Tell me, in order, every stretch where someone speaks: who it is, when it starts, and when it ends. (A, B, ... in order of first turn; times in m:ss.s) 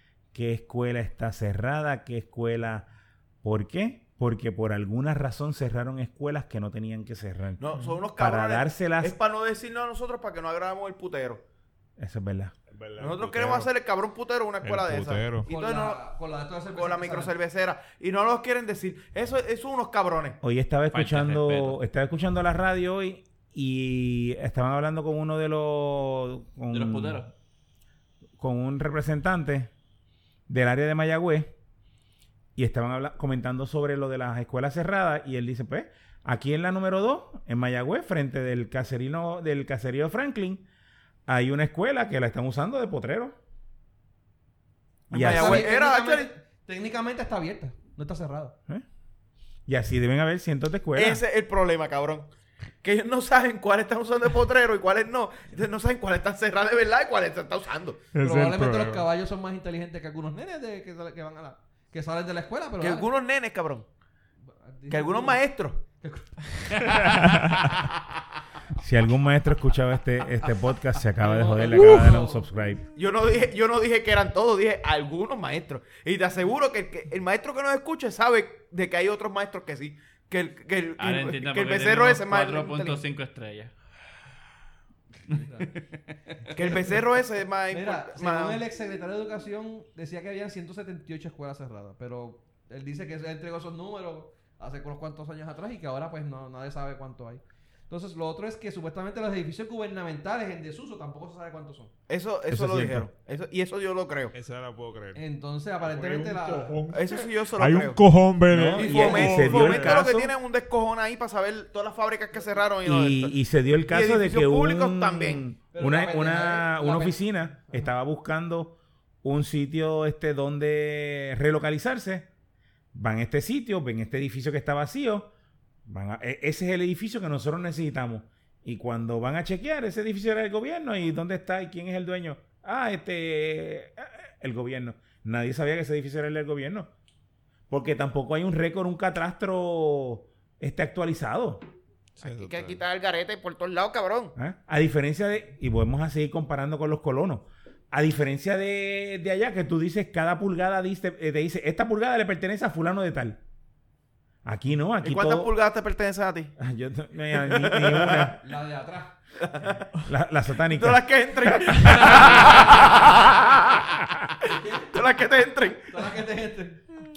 0:00.3-0:02.9 A
0:03.4-0:09.2 A
0:07.6-0:11.4 B
0:12.0-0:12.6 A
0:12.7-0:13.7 C
0:13.0-0:16.0 B
0:14.6-0:15.5 C
0:15.5-0:17.3 D
0:16.7-0:20.4 B
0:20.4-0:27.2 A
0:20.9-0:21.8 E
0:26.7-0:27.3 E
0:28.4-0:29.7 A
0:30.5-0:31.6 A
0:32.6-0:40.7 A
0:41.3-0:43.4 A
0:45.1-0:45.7 A
0:45.1-0:46.3 B
0:45.1-0:48.6 D
0:49.7-0:51.2 A
0:51.0-0:52.3 B
0:52.8-0:58.1 B
0:58.1-0:59.1 C
0:58.2-1:03.1 D
1:02.8-1:03.9 B
1:04.5-1:06.8 D
1:04.9-1:05.8 B
1:06.9-1:07.7 C
1:08.8-1:12.9 A
1:11.2-1:12.5 D
1:13.0-1:23.0 B
1:21.0-1:23.7 E
1:25.3-1:25.7 D
1:25.3-1:26.9 E
1:26.5-1:28.6 B
1:27.7-1:41.9 D
1:42.1-1:44.3 B
1:42.5-1:43.1 A
1:44.3-1:45.2 C
1:45.2-1:46.8 D
1:45.8-1:50.0 C
1:46.9-1:48.0 B
1:48.5-1:50.3 A
1:48.7-1:53.4 B
1:48.8-1:49.3 D
1:52.8-2:02.3 A
1:53.9-1:55.4 B
1:55.7-1:57.9 D
2:02.9-2:05.3 A
2:05.9-2:16.9 A
2:17.7-2:21.6 A
2:22.2-2:22.8 C
2:22.2-2:24.4 B
2:24.4-2:33.4 A
2:34.4-2:35.5 A
2:35.0-2:36.6 B
2:36.6-2:38.4 A
2:37.4-2:38.4 B
2:38.4-2:39.2 D
2:39.4-2:39.8 B
2:40.0-2:42.7 A
2:40.7-2:43.9 B
2:44.5-2:46.1 B
2:44.5-2:45.0 D
2:45.9-2:46.9 D